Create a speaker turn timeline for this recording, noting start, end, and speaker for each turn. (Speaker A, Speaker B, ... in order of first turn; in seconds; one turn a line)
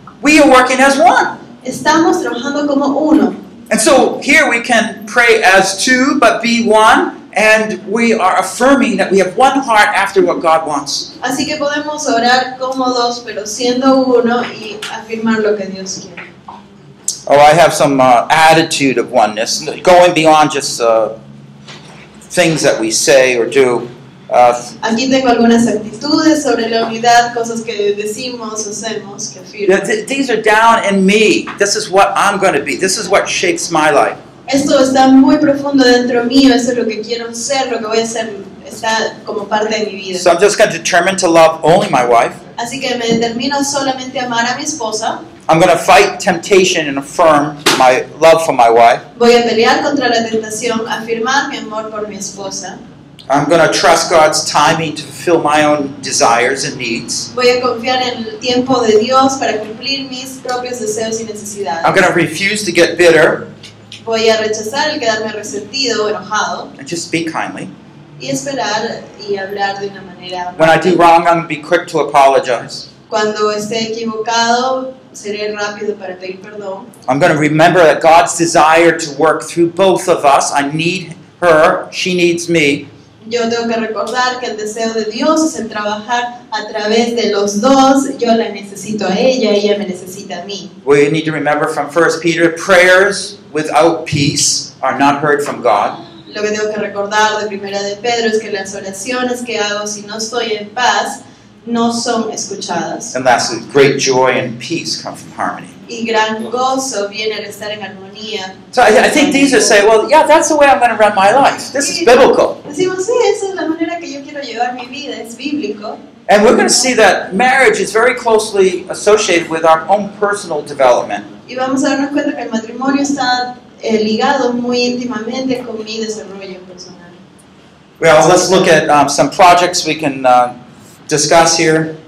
Speaker A: 0.2-1.4
Speaker B: 1.6-3.4
Speaker A: 3.7-11.1
Speaker B: 11.2-16.2
Speaker A: 17.3-21.1
Speaker A: 22.3-24.7
Speaker B: 24.8-29.8
Speaker A: 29.6-34.2
Speaker B: 34.5-40.3
Speaker A: 40.1-42.4
Speaker B: 42.6-45.2
Speaker A: 45.5-49.0
Speaker B: 49.1-52.8
Speaker A: 53.3-57.3
Speaker B: 57.3-62.0
Speaker A: 61.8-63.5
Speaker B: 64.0-66.7
Speaker A: 66.8-67.7
Speaker B: 68.2-71.0
Speaker A: 70.6-72.9
Speaker B: 73.1-76.9
Speaker A: 77.1-82.9
Speaker B: 83.2-90.7
Speaker A: 90.8-96.0
Speaker B: 96.3-103.1
Speaker A: 103.1-105.8
Speaker B: 105.9-109.8
Speaker A: 108.7-112.6
Speaker B: 111.8-116.0
Speaker A: 116.3-121.3
Speaker B: 121.5-127.2
Speaker A: 128.0-130.6
Speaker A: 131.1-131.9